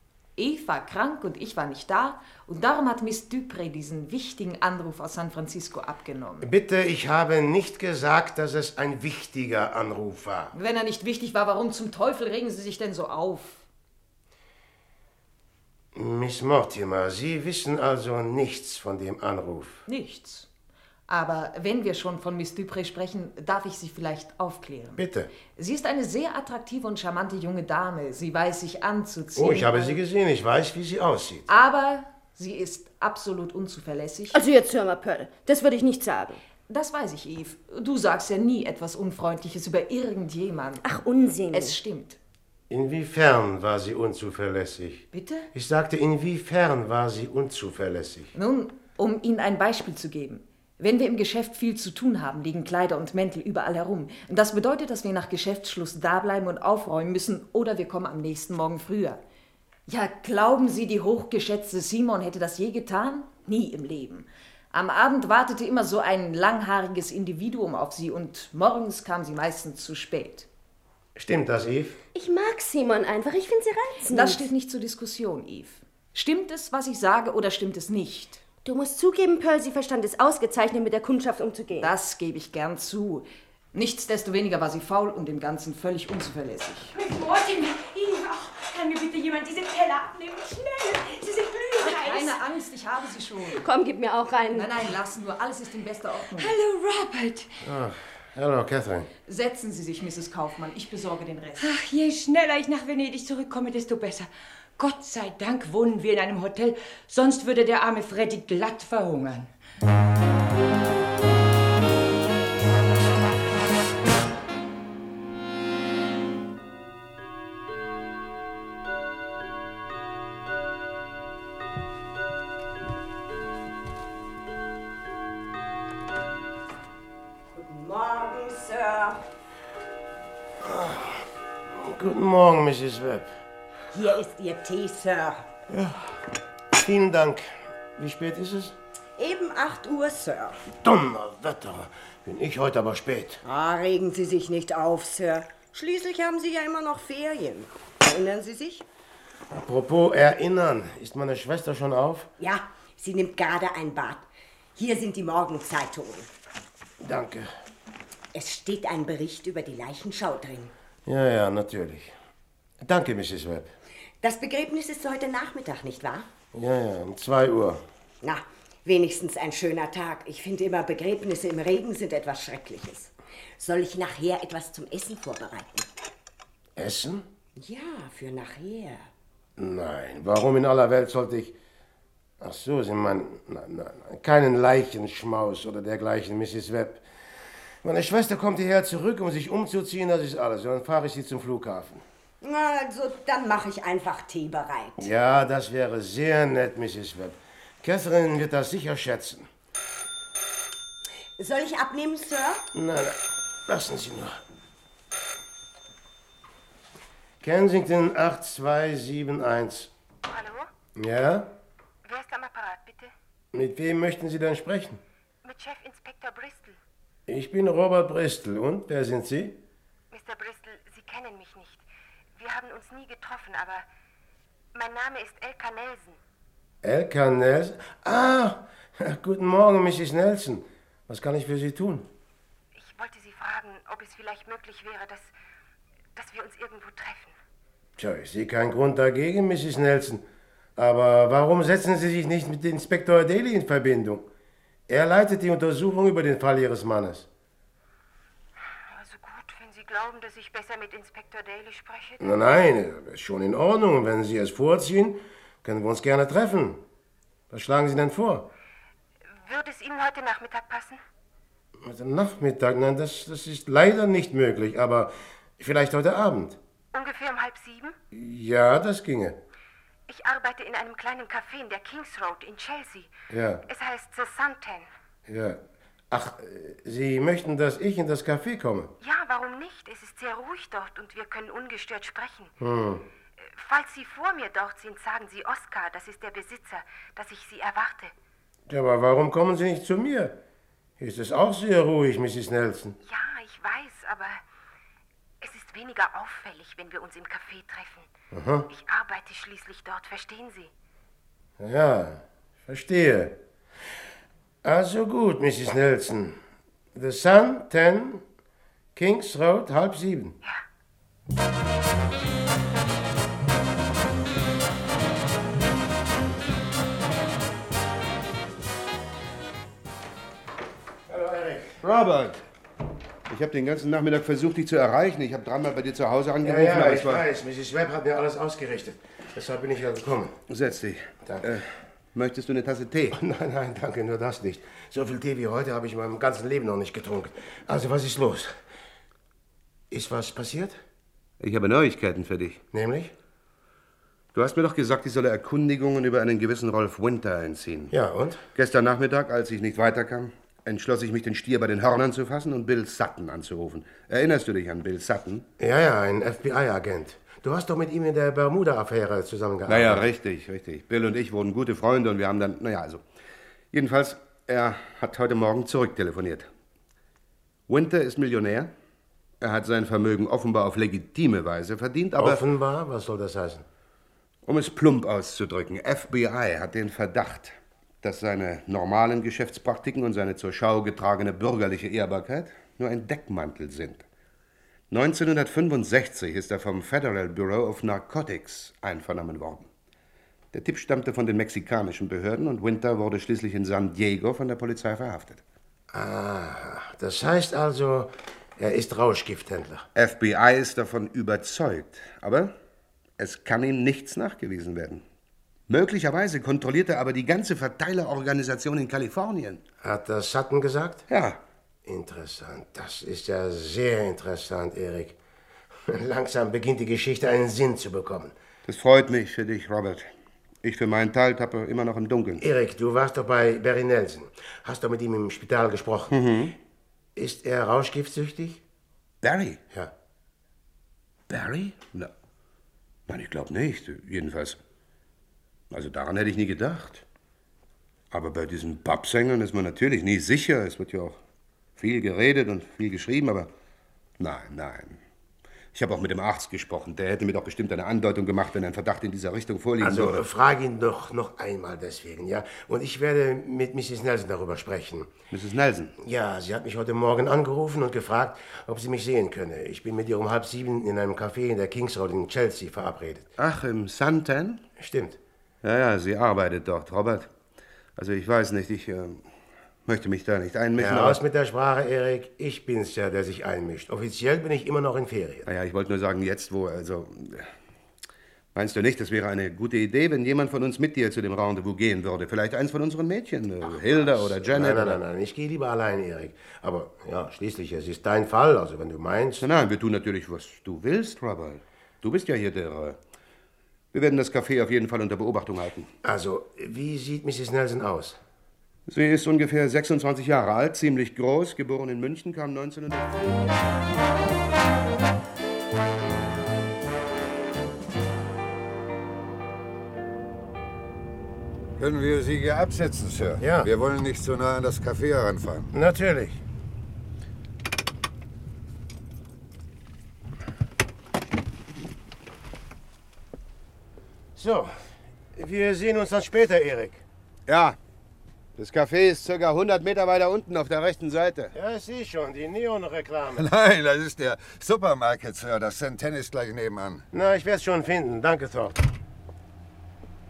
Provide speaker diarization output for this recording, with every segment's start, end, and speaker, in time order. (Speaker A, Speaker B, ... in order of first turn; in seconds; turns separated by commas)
Speaker A: 0.4-6.5, Speaker B: 6.4-10.5, Speaker A: 10.5-13.6, Speaker B: 15.9-19.9, Speaker A: 19.9-20.5, Speaker A: 21.1-30.0, Speaker B: 25.0-25.3, Speaker B: 29.4-31.5, Speaker A: 31.5-34.4, Speaker C: 34.3-36.4, Speaker A: 36.7-40.8, Speaker C: 40.8-41.8, Speaker A: 41.5-42.2, Speaker B: 42.7-48.3, Speaker A: 45.1-45.5, Speaker A: 48.3-59.2, Speaker A: 59.9-70.5, Speaker B: 71.2-72.0, Speaker C: 72.1-74.5, Speaker A: 74.1-78.4, Speaker C: 78.6-81.9, Speaker A: 81.8-87.0, Speaker D: 86.9-92.4, Speaker A: 91.8-93.6, Speaker C: 93.5-94.8, Speaker A: 94.5-96.5, Speaker D: 96.3-97.5, Speaker B: 97.6-99.1, Speaker A: 99.3-101.7, Speaker D: 101.6-109.5, Speaker E: 127.5-129.2, Speaker B: 130.6-131.2, Speaker B: 131.7-133.3, Speaker E: 133.9-135.5, Speaker B: 135.7-136.2, Speaker B: 136.7-138.8, Speaker E: 139.2-140.6, Speaker B: 140.8-143.4, Speaker E: 143.4-148.8, Speaker B: 149.5-152.3, Speaker E: 152.4-156.3, Speaker B: 157.0-157.5, Speaker E: 158.3-160.7, Speaker B: 161.1-162.1, Speaker B: 162.8-163.7, Speaker E: 164.2-166.3, Speaker B: 166.5-167.8, Speaker E: 168.2-175.9, Speaker B: 176.8-177.3, Speaker E: 177.6-179.1, Speaker B: 179.6-181.6, Speaker B: 182.4-187.1, Speaker B: 187.8-192.0, Speaker E: 192.4-195.1, Speaker B: 195.0-199.5, Speaker E: 201.4-202.6, Speaker B: 202.7-204.4, Speaker B: 207.4-209.9, Speaker F: 210.2-210.7, Speaker B: 211.0-211.5, Speaker F: 212.0-213.1, Speaker B: 213.5-215.0, Speaker F: 215.4-216.8, Speaker B: 217.3-219.6, Speaker F: 220.1-223.9, Speaker F: 224.7-226.2, Speaker B: 226.8-232.1, Speaker F: 232.7-235.3, Speaker F: 236.1-237.3, Speaker B: 238.0-240.2, Speaker B: 240.8-244.3, Speaker B: 244.9-247.3, Speaker F: 248.9-252.4, Speaker B: 252.2-256.8, Speaker B: 257.5-258.5, Speaker F: 259.4-261.0, Speaker B: 261.8-266.6, Speaker F: 266.9-268.0, Speaker B: 268.1-269.4, Speaker F: 270.1-273.1, Speaker B: 273.3-273.6, Speaker F: 273.7-274.9, Speaker B: 275.3-275.6, Speaker B: 276.1-278.9, Speaker F: 279.0-282.5, Speaker B: 282.6-283.1, Speaker F: 283.4-288.1, Speaker B: 288.7-290.4, Speaker B: 291.0-293.0, Speaker F: 293.0-294.4, Speaker F: 295.4-298.1, Speaker B: 298.3-298.7, Speaker F: 298.7-300.7, Speaker B: 301.6-303.4, Speaker B: 304.6-306.4, Speaker B: 306.9-308.2, Speaker B: 308.9-310.4, Speaker B: 321.1-321.8, Speaker G: 321.8-322.4, Speaker G: 323.3-327.2, Speaker B: 326.4-330.4, Speaker G: 330.5-333.1, Speaker B: 333.1-338.5, Speaker B: 339.9-340.8, Speaker G: 341.4-342.6, Speaker B: 342.7-343.1, Speaker G: 344.3-347.9, Speaker B: 347.9-348.4, Speaker G: 348.6-355.5, Speaker B: 355.6-360.0, Speaker G: 359.7-363.0, Speaker G: 363.7-366.5, Speaker G: 367.7-368.7, Speaker G: 369.4-372.4, Speaker B: 372.2-373.6, Speaker G: 374.4-384.0, Speaker G: 384.9-389.7, Speaker G: 390.5-395.4, Speaker B: 395.9-399.9, Speaker G: 399.9-402.5, Speaker G: 403.2-405.0, Speaker G: 405.7-409.6, Speaker B: 409.8-411.1, Speaker G: 411.1-411.4, Speaker B: 411.9-415.2, Speaker B: 415.9-418.3, Speaker G: 418.6-420.1, Speaker G: 420.6-422.4, Speaker B: 422.4-426.1, Speaker G: 426.1-426.5, Speaker B: 427.1-428.6, Speaker G: 429.2-429.6, Speaker G: 431.3-432.1, Speaker G: 433.1-434.6, Speaker G: 435.7-437.0, Speaker G: 438.1-441.1, Speaker G: 441.8-443.5, Speaker G: 444.2-445.0, Speaker G: 445.7-450.2, Speaker B: 449.8-455.1, Speaker G: 455.3-455.9, Speaker B: 456.0-463.3, Speaker G: 463.4-464.6, Speaker B: 464.8-465.2, Speaker G: 465.6-467.3, Speaker G: 468.0-469.2, Speaker G: 469.9-471.2, Speaker B: 470.8-475.5, Speaker G: 475.5-477.5, Speaker G: 478.5-485.0, Speaker B: 484.0-489.5, Speaker G: 489.4-493.0, Speaker G: 493.9-495.9, Speaker B: 496.0-498.2, Speaker G: 498.9-503.2, Speaker H: 511.8-515.7, Speaker B: 513.4-513.7, Speaker B: 515.7-516.4, Speaker B: 524.4-524.8, Speaker B: 525.3-527.0, Speaker G: 527.5-527.8, Speaker G: 528.6-531.5, Speaker B: 531.5-533.5, Speaker H: 533.4-537.1, Speaker B: 537.1-538.9